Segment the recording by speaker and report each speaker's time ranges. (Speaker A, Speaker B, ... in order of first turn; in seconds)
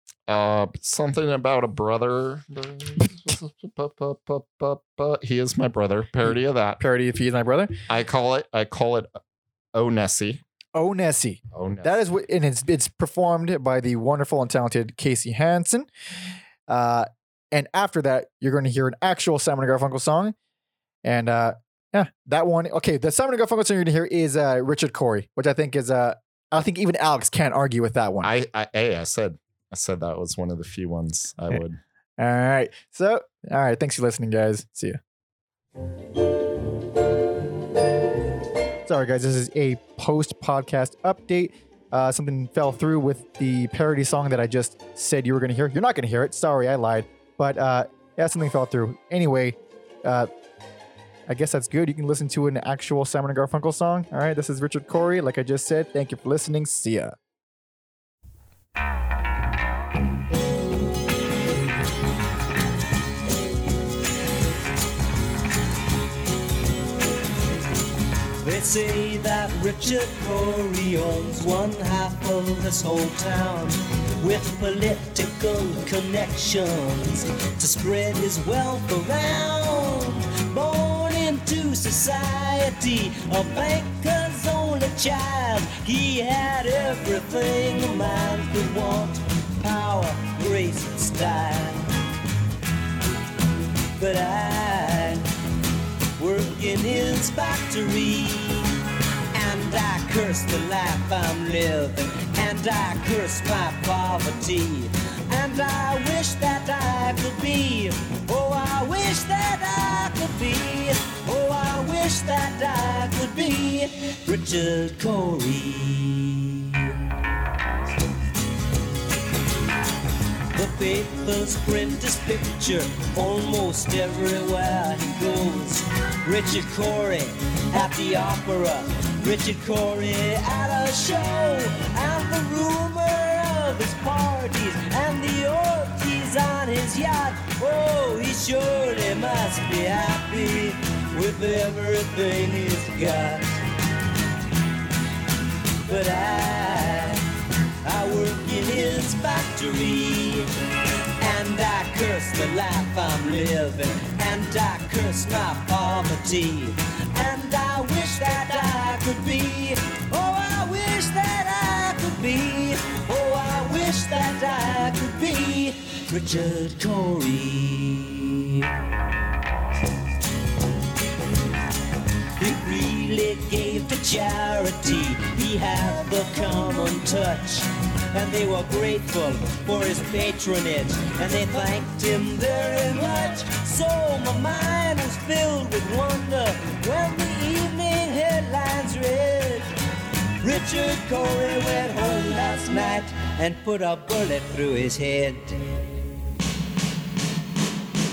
Speaker A: 0.3-6.8, 7.9-9.1, 9.7-10.4, 11.5-12.0, 28.2-31.8
Speaker B: 6.2-7.8, 10.7-15.9, 16.7-20.3, 21.0-28.3, 32.2-35.0, 38.9-50.3, 51.3-57.1
Speaker C: 68.4-91.9, 94.0-95.3, 96.2-98.8, 99.3-117.0, 120.5-143.5, 145.8-147.3, 147.8-150.5, 151.2-168.7, 172.4-189.8, 190.4-195.8